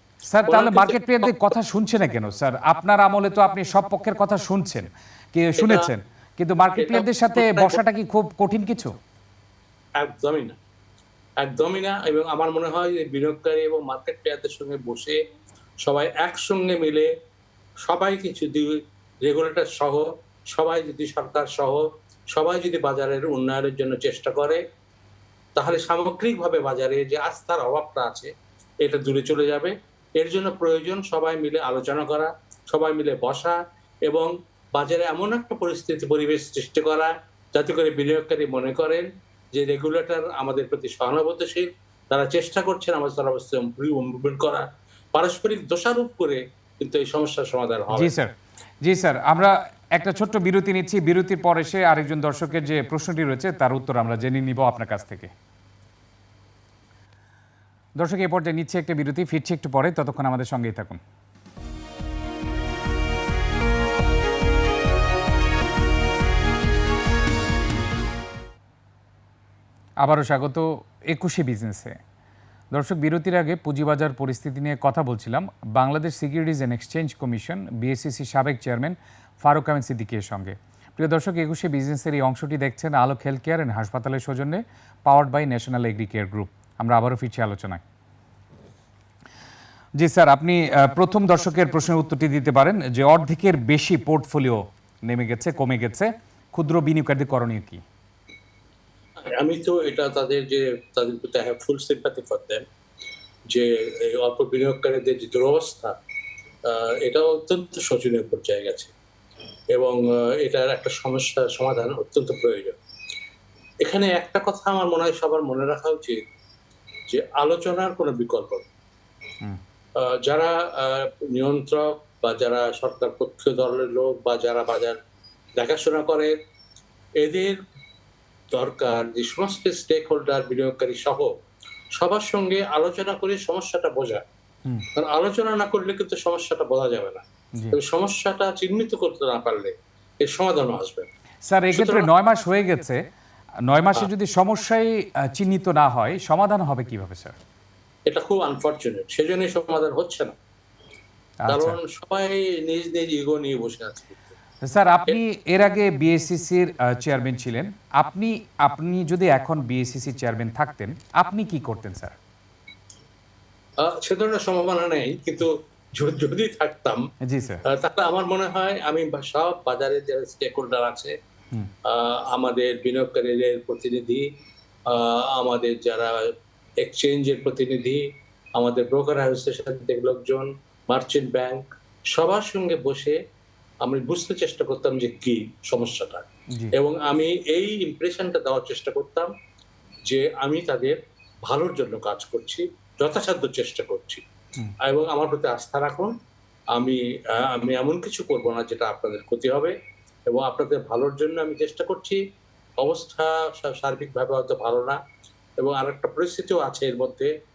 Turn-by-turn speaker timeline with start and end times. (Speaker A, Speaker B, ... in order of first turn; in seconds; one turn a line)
Speaker A: 0.3-8.9
Speaker B: 0.5-1.1
Speaker B: 5.6-5.9
Speaker B: 6.8-7.8
Speaker B: 10.0-10.6
Speaker B: 11.4-15.2
Speaker B: 15.8-17.1
Speaker B: 17.8-24.6
Speaker B: 25.6-48.1
Speaker A: 47.9-48.3
Speaker A: 48.8-55.3
Speaker A: 58.0-61.0
Speaker A: 70.0-71.9
Speaker A: 72.7-87.8
Speaker A: 90.0-97.8
Speaker B: 99.3-102.6
Speaker B: 103.5-105.9
Speaker B: 106.7-108.9
Speaker B: 109.7-112.8
Speaker B: 113.8-116.2
Speaker B: 117.1-118.7
Speaker B: 120.0-125.0
Speaker B: 125.6-126.3
Speaker B: 127.2-127.6
Speaker B: 128.5-131.3
Speaker B: 132.0-134.2
Speaker B: 134.9-141.1
Speaker A: 141.4-143.0
Speaker B: 141.7-142.1
Speaker A: 143.6-147.4
Speaker B: 148.1-150.3
Speaker A: 151.4-151.7
Speaker B: 151.5-154.2
Speaker A: 154.6-162.2
Speaker B: 163.8-167.0
Speaker A: 167.3-167.6
Speaker B: 167.7-171.1
Speaker B: 171.9-174.2
Speaker B: 174.9-176.3
Speaker B: 176.8-178.0
Speaker B: 178.5-183.2
Speaker B: 183.8-189.3
Speaker B: 190.1-194.2
Speaker B: 194.8-196.1
Speaker B: 196.7-199.7
Speaker B: 200.3-202.2
Speaker B: 202.8-205.0
Speaker B: 205.6-207.3